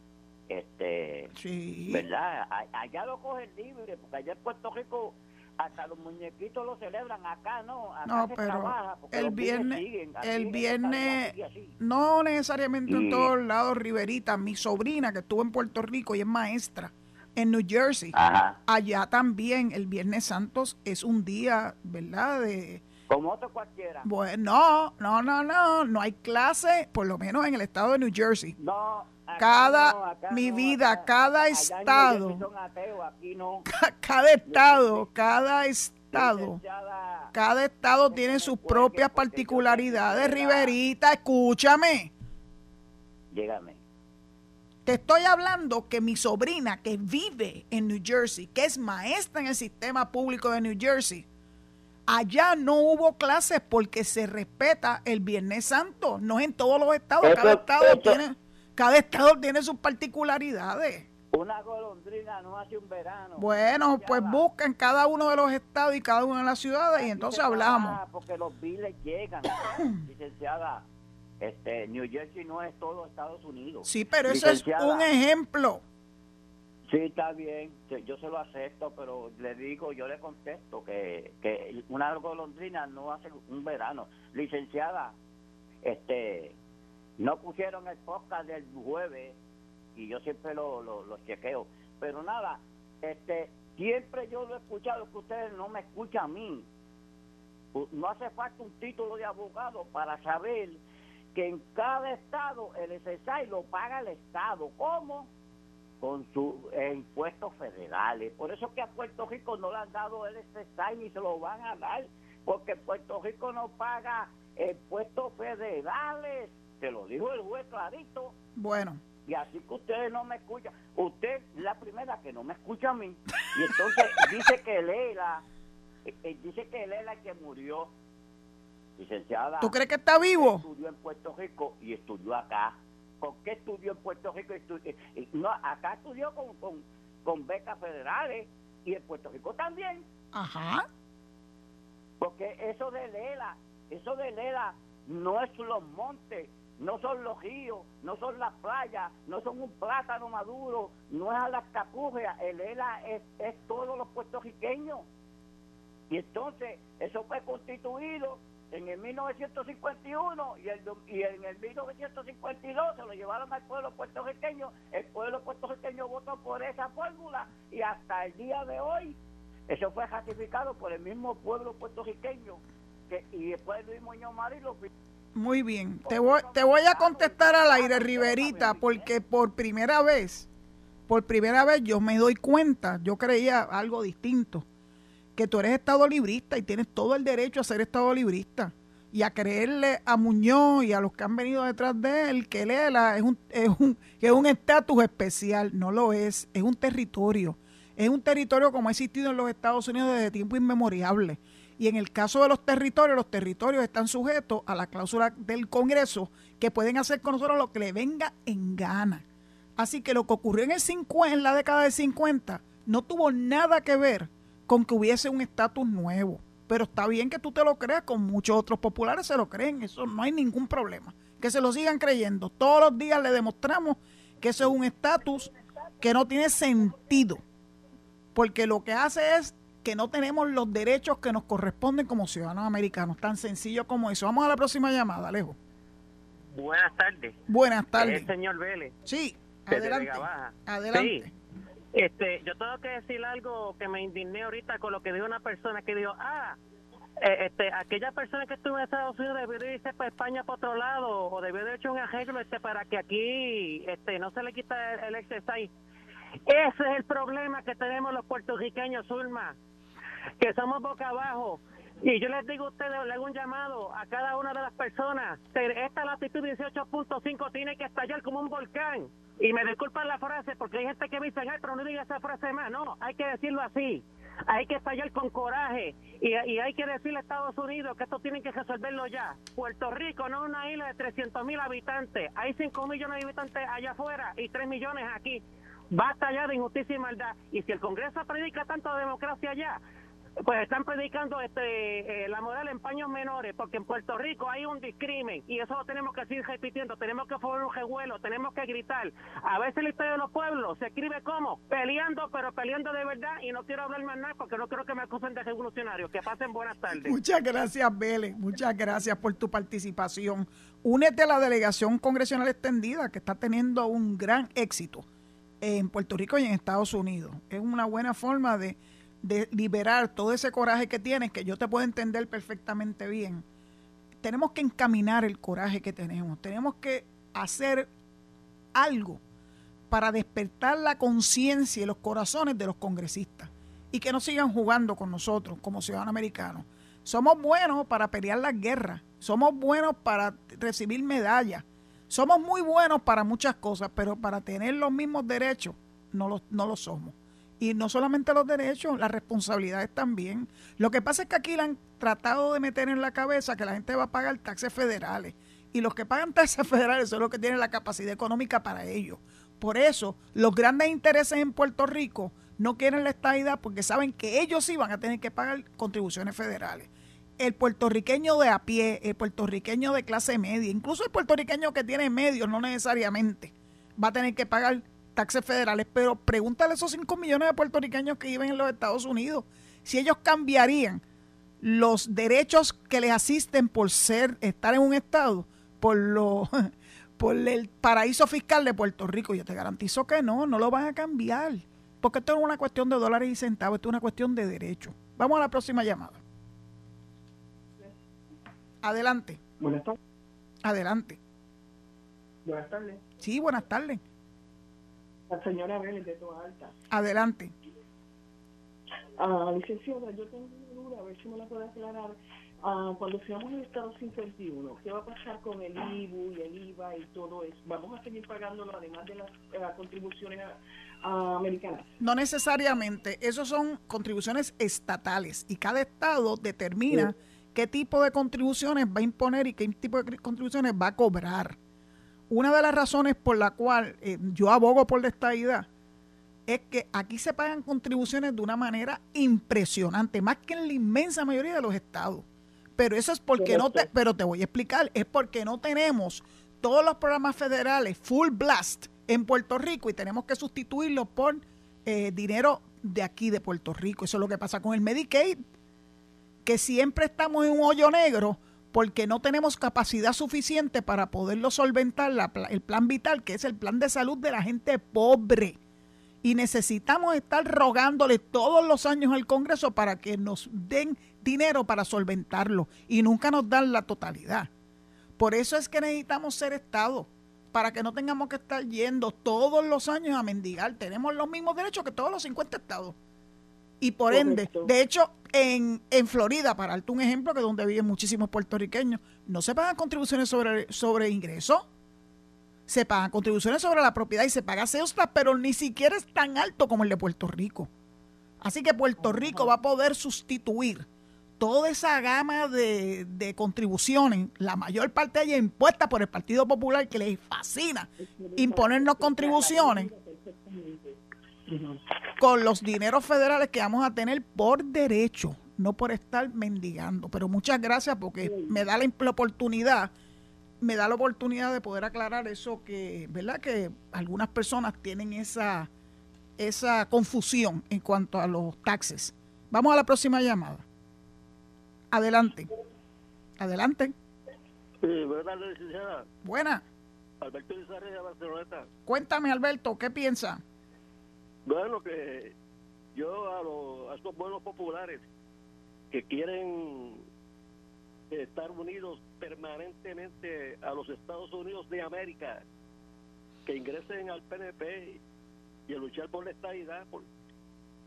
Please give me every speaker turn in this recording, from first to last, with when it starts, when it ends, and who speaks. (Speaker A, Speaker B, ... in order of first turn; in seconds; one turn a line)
Speaker A: 0.5-1.3
Speaker B: 1.3-2.0
Speaker A: 1.9-11.7
Speaker B: 8.1-18.1
Speaker A: 12.9-13.3
Speaker A: 18.1-18.6
Speaker B: 18.7-22.8
Speaker A: 23.1-24.1
Speaker B: 24.0-28.6
Speaker A: 28.6-33.6
Speaker B: 29.4-32.4
Speaker B: 33.7-36.6
Speaker A: 34.5-35.1
Speaker A: 36.1-37.3
Speaker B: 37.3-42.1
Speaker A: 38.1-40.7
Speaker A: 43.3-43.8
Speaker B: 44.9-51.2
Speaker B: 52.1-61.1
Speaker A: 57.2-58.2
Speaker A: 61.3-64.4
Speaker B: 63.4-68.0
Speaker A: 67.0-70.8
Speaker A: 71.4-75.1
Speaker B: 73.8-75.8
Speaker A: 76.9-85.1
Speaker A: 85.8-86.6
Speaker A: 87.2-89.4
Speaker A: 90.0-96.7
Speaker A: 97.7-100.8
Speaker A: 101.3-105.3
Speaker A: 106.0-118.3
Speaker B: 118.5-119.0
Speaker A: 119.2-125.4
Speaker A: 126.1-127.9
Speaker A: 129.0-129.7
Speaker B: 129.6-130.6
Speaker A: 130.4-140.1
Speaker B: 140.3-140.8
Speaker A: 142.2-155.1
Speaker A: 156.1-174.9
Speaker B: 175.3-180.5
Speaker A: 176.1-179.1
Speaker B: 181.1-184.6
Speaker B: 185.3-209.2
Speaker B: 209.8-227.4
Speaker B: 228.3-235.6
Speaker C: 236.5-237.3
Speaker B: 237.5-238.3
Speaker C: 238.0-238.9
Speaker B: 239.0-241.3
Speaker C: 239.7-241.2
Speaker C: 241.9-246.6
Speaker C: 247.2-255.7
Speaker C: 256.5-259.6
Speaker C: 260.4-289.8
Speaker C: 290.4-307.1
Speaker B: 306.9-315.0
Speaker B: 315.6-323.4
Speaker B: 324.2-327.9
Speaker B: 328.7-329.2
Speaker B: 329.9-381.0
Speaker B: 381.6-396.2
Speaker B: 398.8-399.4
Speaker D: 399.6-399.9
Speaker B: 400.6-401.2
Speaker D: 402.4-403.0
Speaker B: 403.2-404.0
Speaker D: 405.3-406.7
Speaker B: 406.9-407.5
Speaker D: 409.2-421.9
Speaker B: 422.0-431.6
Speaker B: 432.3-435.7
Speaker B: 436.5-442.2
Speaker B: 442.8-455.4
Speaker D: 443.4-443.9
Speaker B: 456.4-465.6
Speaker B: 466.2-474.5
Speaker B: 475.2-482.9
Speaker B: 483.8-491.7
Speaker D: 484.1-484.7
Speaker B: 492.7-497.7
Speaker B: 498.4-500.9
Speaker D: 499.0-499.5
Speaker B: 501.4-509.9
Speaker D: 508.0-511.8
Speaker B: 512.2-519.9
Speaker D: 518.2-518.6
Speaker B: 520.6-525.7
Speaker B: 526.4-530.6
Speaker B: 531.9-532.5
Speaker B: 533.4-533.9
Speaker E: 534.8-536.0
Speaker B: 536.2-536.6
Speaker E: 537.2-538.7
Speaker B: 538.9-540.4
Speaker E: 541.4-542.3
Speaker E: 542.9-545.0
Speaker E: 545.9-547.0
Speaker E: 548.1-552.4
Speaker E: 553.5-555.0
Speaker E: 555.7-557.0